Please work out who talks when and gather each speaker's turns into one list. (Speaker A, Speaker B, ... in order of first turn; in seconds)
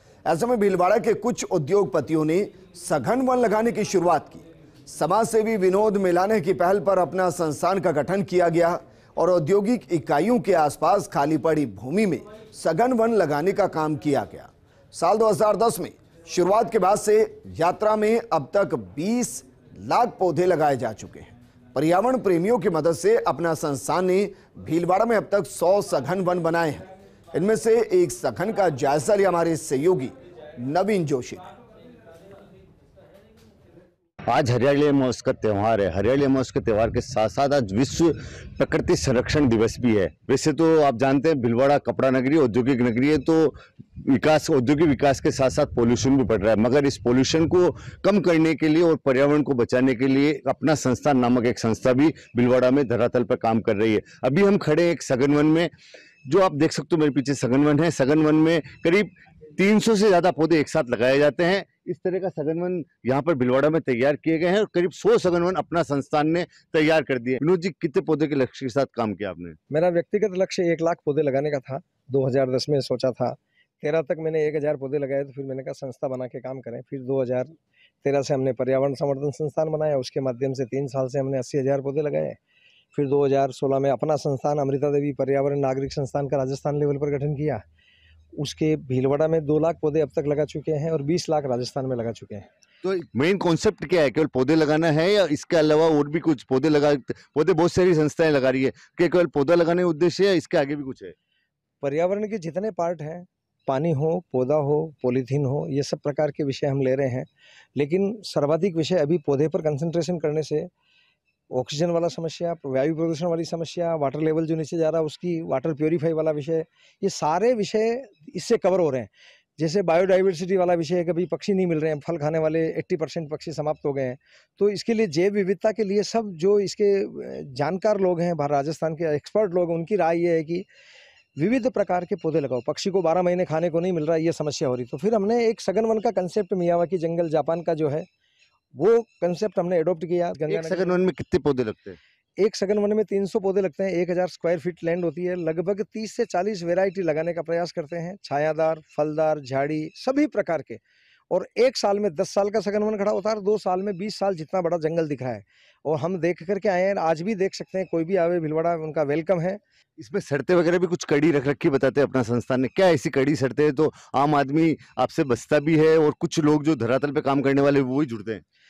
Speaker A: 0.3-31.5
Speaker B: 34.3-55.7, 56.3-69.6, 92.8-101.2, 140.5-142.0, 160.0-168.4
Speaker C: 69.7-82.4, 82.9-87.6, 88.4-92.5, 101.8-110.7, 111.5-130.7, 131.4-138.1, 138.7-141.0, 142.4-159.6